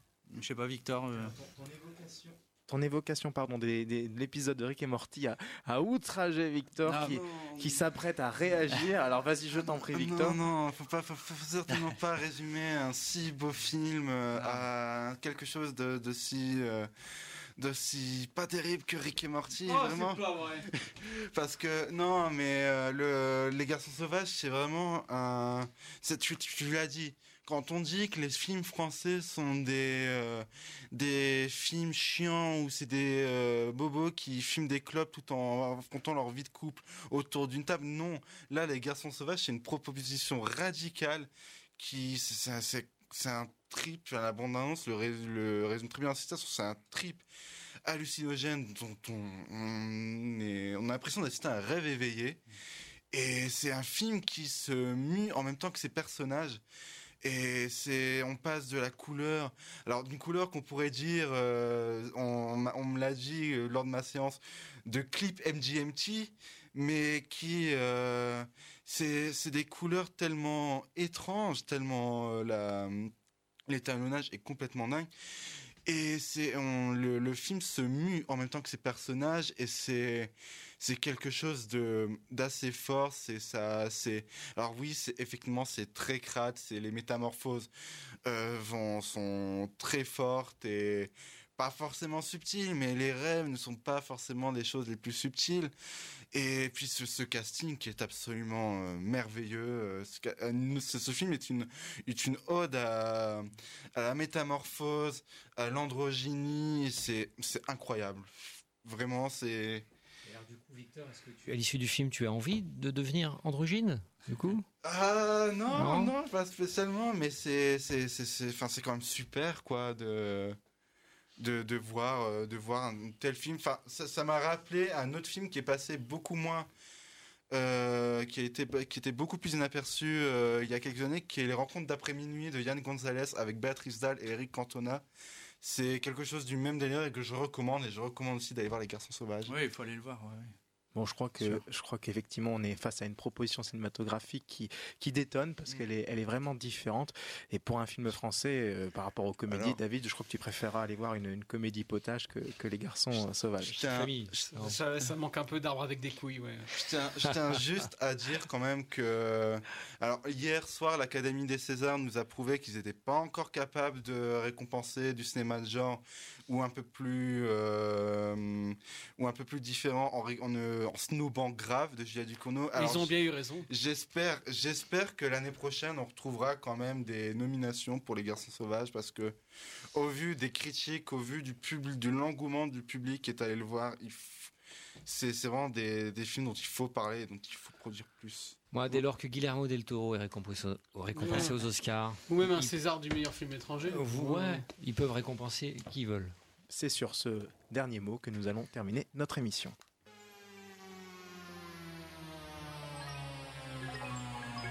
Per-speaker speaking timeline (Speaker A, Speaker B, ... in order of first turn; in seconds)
Speaker A: 0.3-1.3, 6.8-7.2, 14.3-14.7, 139.4-140.5
Speaker B: 1.1-10.4, 140.9-153.8, 196.7-199.8
Speaker C: 7.3-7.7, 9.6-16.9, 17.6-47.2, 47.8-52.4, 53.1-56.6, 57.2-73.1, 73.7-75.1, 75.8-87.7, 88.2-95.7, 96.3-109.8, 114.8-120.6, 121.4-126.7, 127.5-135.0, 135.6-139.5, 149.5-149.8, 153.6-154.5, 156.7-173.1, 173.7-179.3, 179.9-184.5, 185.0-188.6
Speaker D: 19.6-20.6, 154.5-156.7, 172.7-173.7, 191.2-191.5, 192.3-194.6
Speaker E: 110.2-114.6, 115.7-116.1, 153.7-154.8, 188.7-192.7, 193.9-196.3